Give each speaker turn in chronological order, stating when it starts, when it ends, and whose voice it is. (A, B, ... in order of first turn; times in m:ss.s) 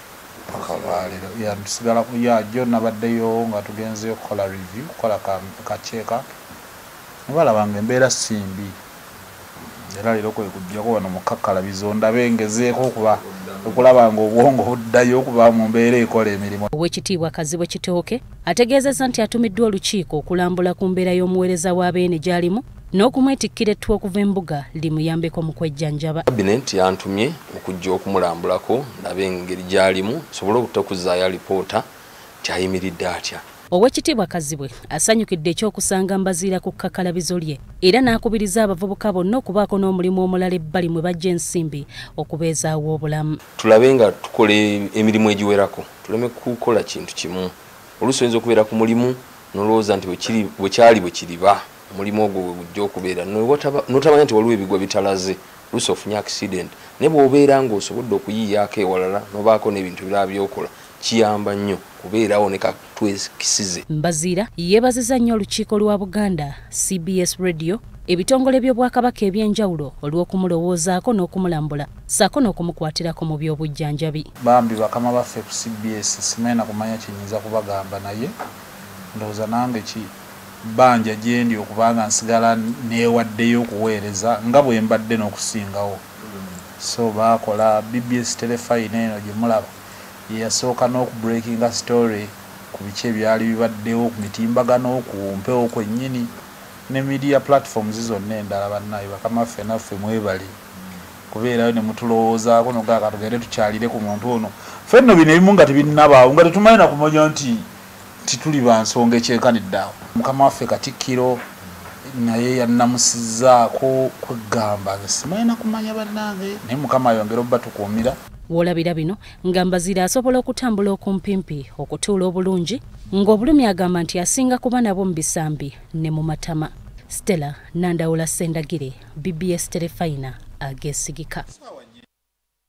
0:00.5-0:01.6 A
0:00.5-0:06.3 B
0:07.3-0:08.8 B
0:09.9-0:16.7 B
0:13.0-0:13.9 A
0:16.7-0:26.2 C
0:26.3-0:31.9 A
0:32.4-0:33.4 A
0:33.7-0:43.4 C
0:43.6-1:03.8 A
1:03.9-1:14.3 C
1:14.4-1:18.3 B
1:19.1-1:20.1 B
1:20.6-1:26.0 B
1:26.8-1:29.7 B
1:30.3-1:36.3 B
1:36.9-1:40.5 B
1:41.3-1:47.7 B
1:48.3-1:51.4 B
1:52.1-1:58.2 B
1:58.5-2:11.5 C